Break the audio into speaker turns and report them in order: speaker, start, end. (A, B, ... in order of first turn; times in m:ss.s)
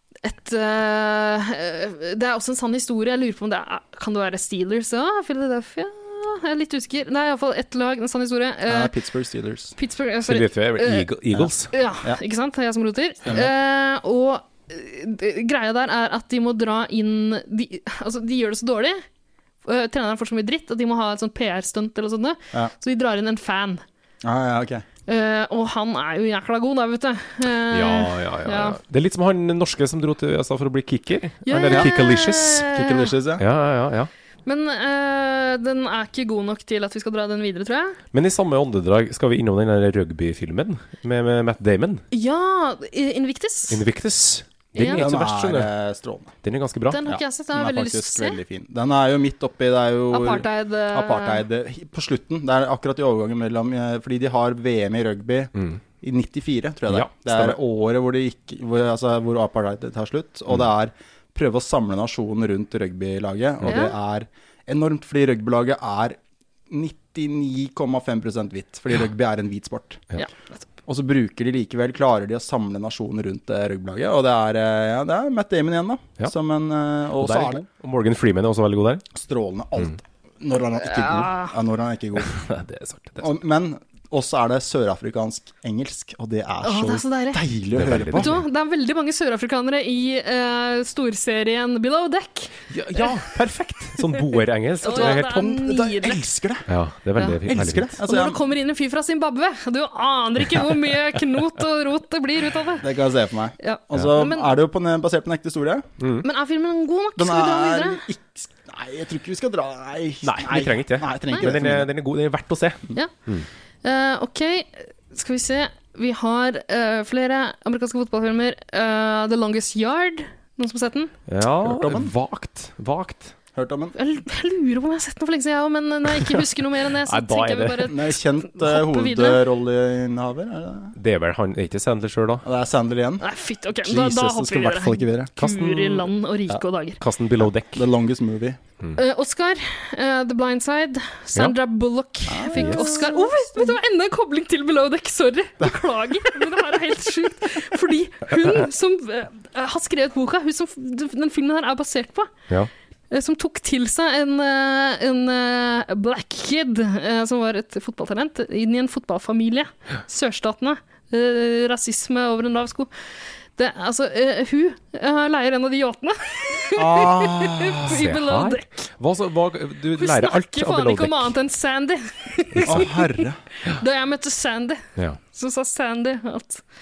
0:00.2-0:08.9 A
0:08.7-0:09.7 B
0:09.8-0:11.1 A
0:10.2-0:11.7 C
0:11.7-0:19.0 A
0:13.2-0:13.5 B
0:19.6-0:23.8 A
0:24.2-0:24.8 B
0:25.1-0:28.8 A
0:27.7-0:32.7 C
0:31.4-0:33.1 A
0:31.6-0:32.0 B
0:32.6-0:33.4 B
0:33.4-0:34.1 C
0:34.4-0:38.0 A
0:38.1-0:42.0 C
0:42.1-0:43.8 A
0:43.7-0:45.7 C
0:44.7-0:45.0 A
0:44.9-0:46.3 B
0:46.4-0:47.0 C
0:46.9-0:48.4 A
0:47.0-1:06.2 B
0:50.1-0:51.4 A
0:55.6-0:55.8 C
0:56.9-0:57.6 C
1:03.6-1:03.9 A
1:06.7-1:10.0 B
1:10.9-1:17.6 B
1:17.2-1:19.0 C
1:19.1-1:22.4 B
1:20.8-1:21.6 A
1:22.3-1:23.3 C
1:23.2-1:28.3 B
1:26.6-1:27.4 A
1:27.7-1:28.4 C
1:28.2-1:33.1 A
1:32.7-1:35.4 C
1:34.8-1:36.2 A
1:34.9-1:36.7 B
1:36.7-1:37.9 C
1:37.4-1:38.4 B
1:38.0-1:42.9 A
1:42.8-1:45.9 B
1:43.6-1:44.6 A
1:46.0-1:46.2 C
1:46.2-1:48.0 A
1:47.2-1:51.9 B
1:50.2-1:53.5 C
1:53.8-2:01.1 A
2:01.3-2:03.3 C
2:01.6-2:02.1 B
2:03.5-2:04.0 B
2:04.0-2:09.4 A
2:07.0-2:08.0 C
2:07.8-2:10.9 B
2:11.0-2:12.4 C
2:12.4-2:13.2 B
2:13.2-2:17.0 A
2:13.8-2:15.3 B
2:15.4-2:16.1 C
2:17.0-2:17.9 C
2:17.7-2:18.6 B
2:19.0-2:32.3 A
2:22.3-2:23.3 B
2:22.5-2:22.9 C
2:33.1-2:42.9 A
2:43.6-2:48.8 A
2:46.8-2:48.0 B
2:47.8-2:51.3 C
2:50.0-2:56.6 A
2:52.5-2:52.8 C
2:52.6-2:53.4 B